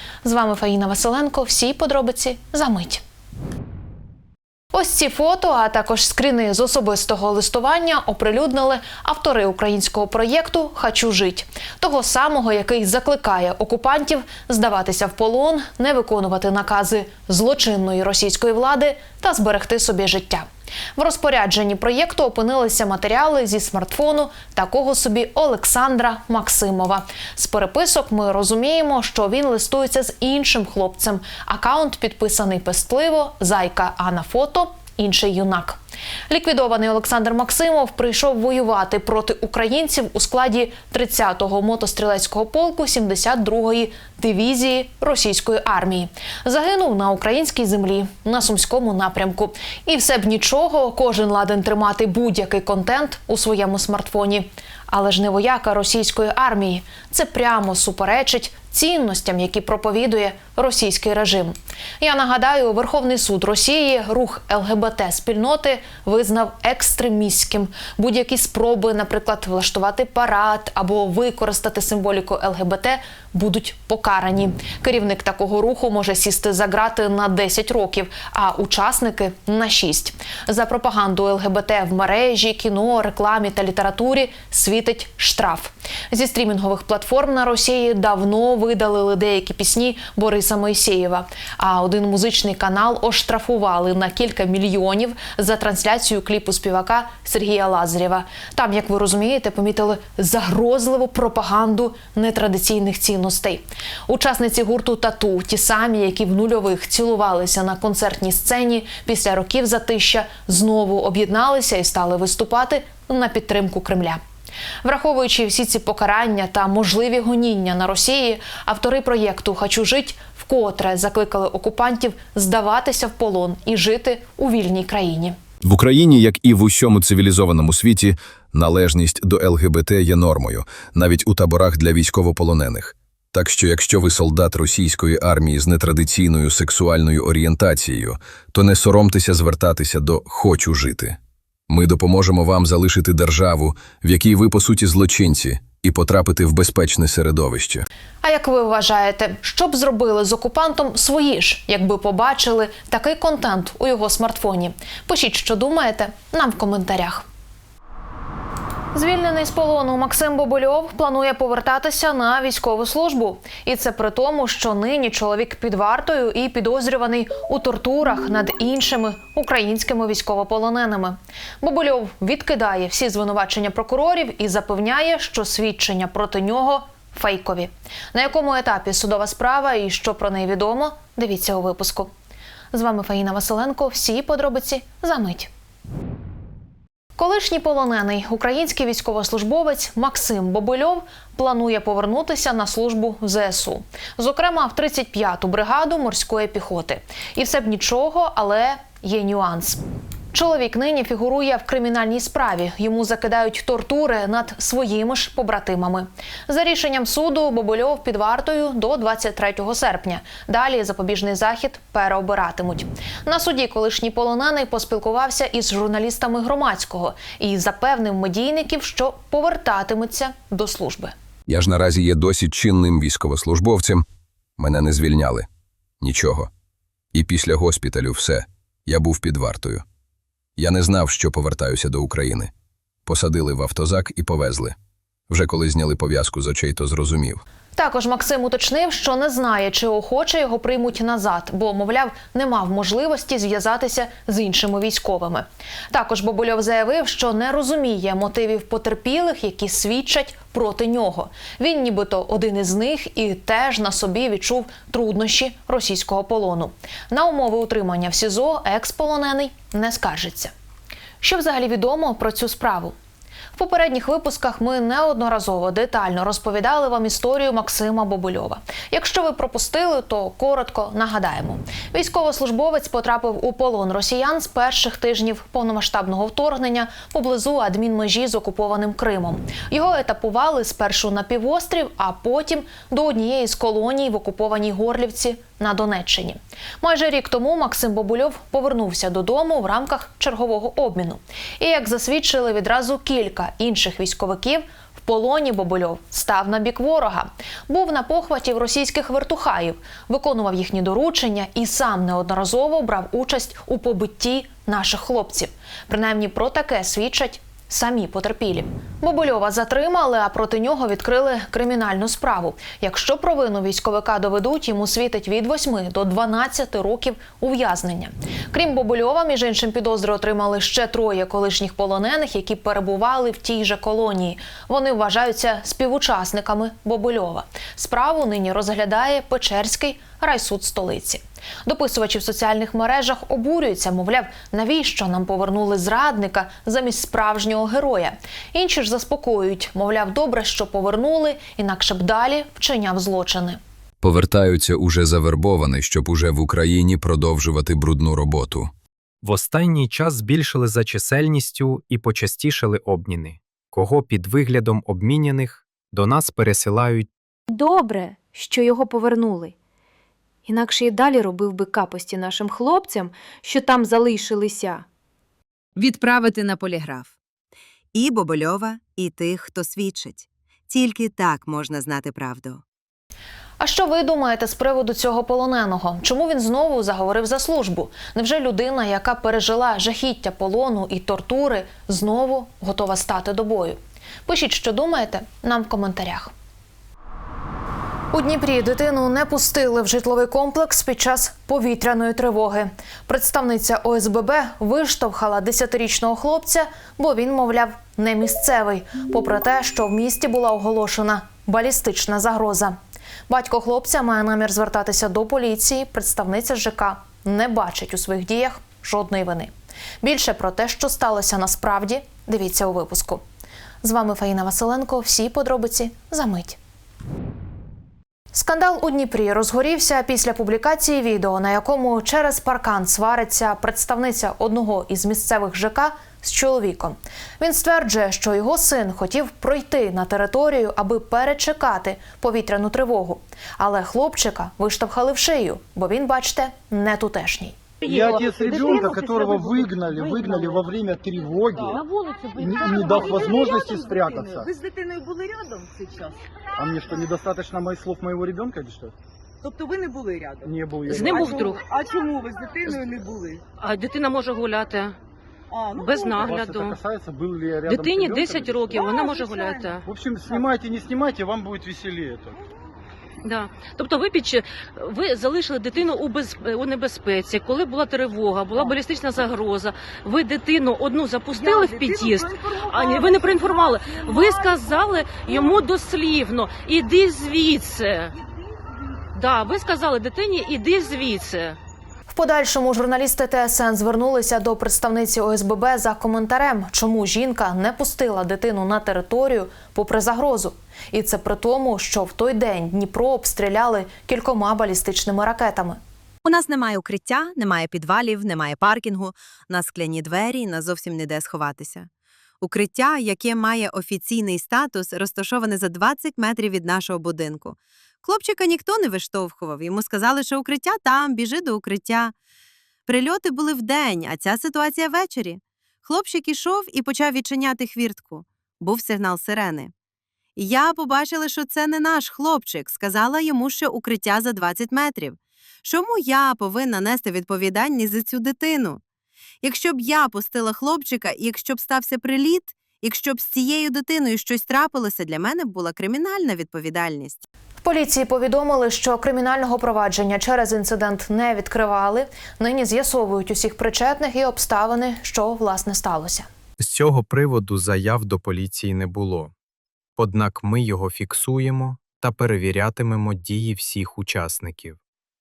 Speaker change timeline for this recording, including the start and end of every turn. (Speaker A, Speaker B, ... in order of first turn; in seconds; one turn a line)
Speaker A: 0.2-3.0
Speaker A: 4.7-20.4
Speaker A: 21.0-114.2
Speaker A: 114.8-125.3
Speaker B: 125.6-141.2
Speaker B: 141.7-147.8
Speaker A: 148.2-157.2
Speaker A: 158.9-182.1
Speaker A: 182.7-185.5
Speaker A: 187.2-199.8
Speaker A: 200.3-221.1
Speaker B: 221.5-224.0
Speaker B: 224.6-225.4
Speaker B: 226.0-226.5
Speaker B: 227.1-229.8
Speaker B: 230.6-232.5
Speaker B: 233.1-234.7
Speaker B: 235.3-237.4
Speaker A: 237.7-260.5
Speaker A: 261.2-262.9
Speaker A: 263.5-343.6
Speaker B: 344.0-348.7
Speaker C: 349.2-357.1
Speaker D: 357.5-359.5
Speaker D: 360.4-364.9
Speaker E: 365.8-367.1
Speaker E: 367.9-372.6
Speaker A: 373.6-386.3
Speaker A: 388.1-402.7
Speaker A: 403.3-413.2
Speaker A: 413.8-416.6
Speaker A: 418.3-437.6
Speaker F: 437.8-438.2
Speaker G: 437.8-441.8
Speaker H: 438.4-440.7
Speaker H: 441.6-446.2
Speaker G: 442.4-444.5
Speaker G: 446.6-448.9
Speaker H: 449.4-450.5
Speaker G: 450.4-451.3
Speaker F: 450.9-451.6
Speaker H: 451.0-453.4
Speaker F: 453.6-454.9
Speaker H: 455.5-456.2
Speaker F: 455.8-456.8
Speaker G: 456.2-458.9
Speaker F: 457.7-459.8
Speaker H: 458.8-459.7
Speaker G: 459.8-462.4
Speaker F: 463.2-478.1
Speaker H: 471.4-474.5
Speaker F: 479.1-481.6
Speaker A: 482.1-495.8
Speaker E: 496.2-501.9
Speaker E: 502.4-512.1
Speaker E: 512.9-519.7
Speaker E: 520.4-528.8
Speaker E: 529.4-537.2
Speaker A: 537.6-546.3
Speaker C: 546.6-549.3
Speaker C: 550.0-554.8